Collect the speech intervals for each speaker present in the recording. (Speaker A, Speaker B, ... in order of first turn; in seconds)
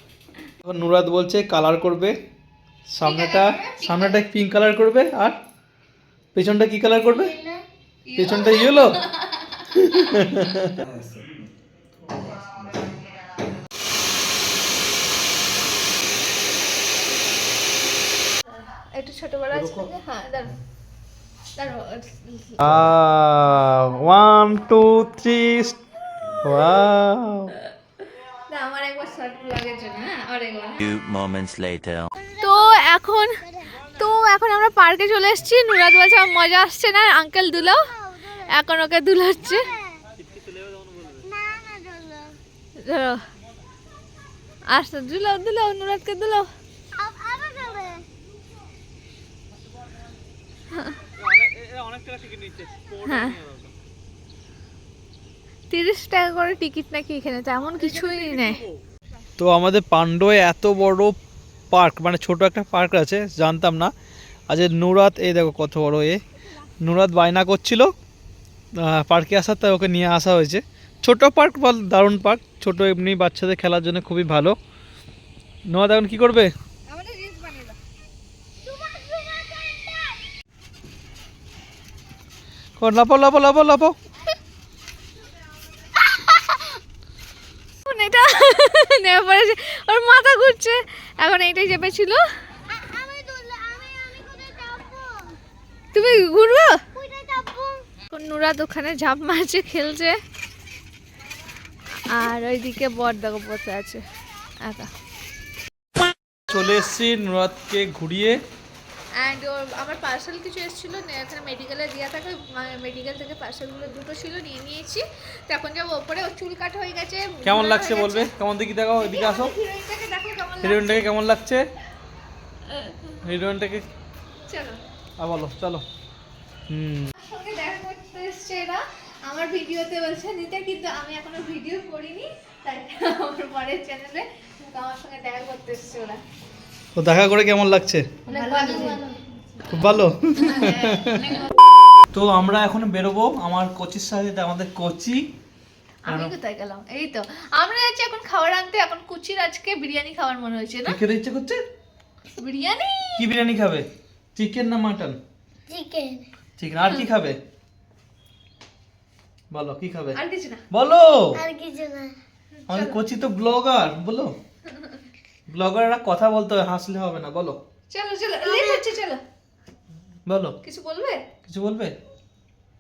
Speaker A: 0.6-2.2, 2.9-5.4, 6.3-7.3, 8.2-9.0, 9.7-10.8, 19.5-19.9, 22.6-25.8, 26.4-27.6, 40.3-41.1, 51.2-53.7, 58.0-58.5, 59.4-61.1, 61.7-63.9, 64.5-66.2, 66.8-67.9, 68.8-74.6, 75.7-76.5, 82.8-84.0, 106.0-108.4, 117.4-119.5, 120.6-121.7, 123.2-123.9, 125.2-125.8, 126.7-127.1, 137.0-138.2, 139.7-141.5, 142.1-145.2, 146.1-146.3, 150.9-151.6, 153.2-155.2, 156.6-157.4, 159.5-160.2, 160.7-161.4, 162.7-164.3, 165.5-167.6, 170.3-170.6, 171.4-171.9
Speaker B: 3.0-4.2, 8.1-10.3, 16.8-17.2, 18.5-20.6, 21.6-22.6, 28.5-30.9, 32.4-37.9, 38.4-39.7, 42.8-43.2, 44.7-46.5, 50.7-51.0, 53.0-53.4, 55.7-58.6, 76.9-77.8, 87.8-92.2, 95.9-96.8, 98.1-100.2, 102.0-104.0, 104.6-104.9, 109.2-118.3, 119.0-121.1, 122.7-123.2, 124.5-124.8, 127.2-136.2, 138.3-139.1, 140.4-141.5, 146.1-151.0, 152.4-153.3, 160.1-160.6, 162.6-163.0, 164.7-165.0, 167.9-169.2, 170.6-171.2
Speaker C: 7.0-7.6, 32.2-32.9, 33.4-33.8, 37.6-38.5, 39.4-40.1, 41.2-42.4, 47.0-48.0, 78.7-80.0, 92.7-95.4, 96.9-97.8, 155.7-156.3, 161.3-162.1, 168.5-168.8
Speaker D: 30.8-32.1, 138.3-139.2